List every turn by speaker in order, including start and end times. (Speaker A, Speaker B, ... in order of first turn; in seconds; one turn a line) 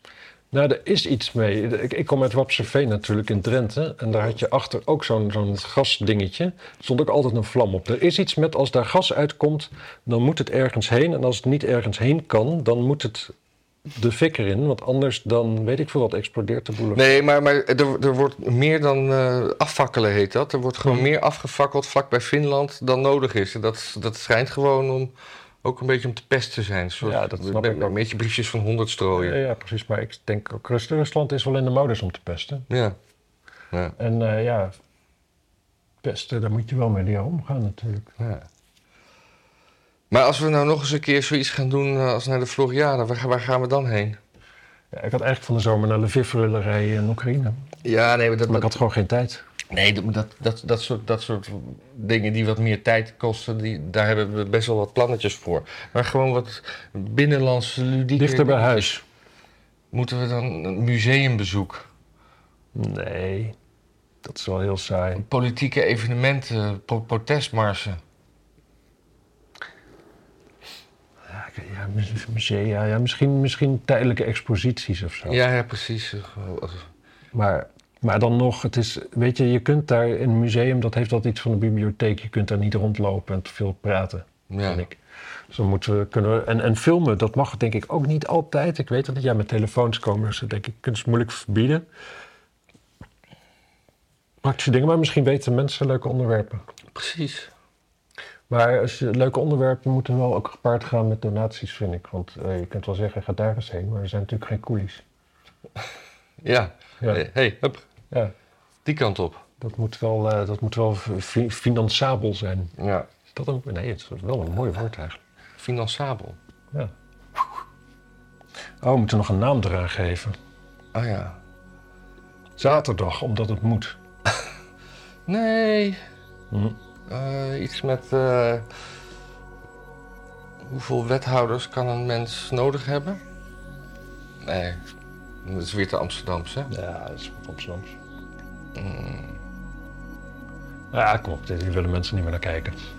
Speaker A: 0.5-13.3
Speaker A: 13.9-17.2
Speaker B: 16.9-25.1
Speaker B: 25.6-29.4
Speaker A: 27.0-28.0
Speaker A: 29.1-32.7
Speaker B: 32.7-33.0
Speaker A: 34.0-34.8
Speaker A: 36.0-38.1
Speaker B: 38.2-38.5
Speaker B: 40.1-44.2
Speaker A: 44.9-47.7
Speaker B: 47.8-48.7
Speaker A: 48.5-49.4
Speaker B: 49.7-59.0
Speaker A: 58.2-59.0
Speaker B: 59.9-61.9
Speaker A: 62.8-63.6
Speaker A: 64.2-65.2
Speaker B: 65.2-68.0
Speaker A: 71.3-75.4
Speaker B: 75.3-76.9
Speaker A: 77.3-85.0
Speaker B: 84.5-84.9
Speaker A: 85.5-91.8
Speaker A: 94.4-96.6
Speaker B: 97.0-97.5
Speaker A: 98.5-105.0
Speaker B: 106.4-107.8
Speaker B: 108.8-109.5
Speaker A: 109.6-112.8
Speaker B: 112.8-113.1
Speaker A: 113.3-115.2
Speaker B: 115.6-116.4
Speaker A: 116.7-117.5
Speaker A: 118.8-120.4
Speaker B: 120.9-121.4
Speaker A: 122.6-124.0
Speaker B: 125.3-126.0
Speaker A: 126.5-126.8
Speaker B: 127.1-128.7
Speaker B: 130.6-133.2
Speaker B: 134.4-134.8
Speaker B: 135.4-136.7
Speaker A: 136.7-138.0
Speaker B: 138.8-139.4
Speaker A: 140.9-142.8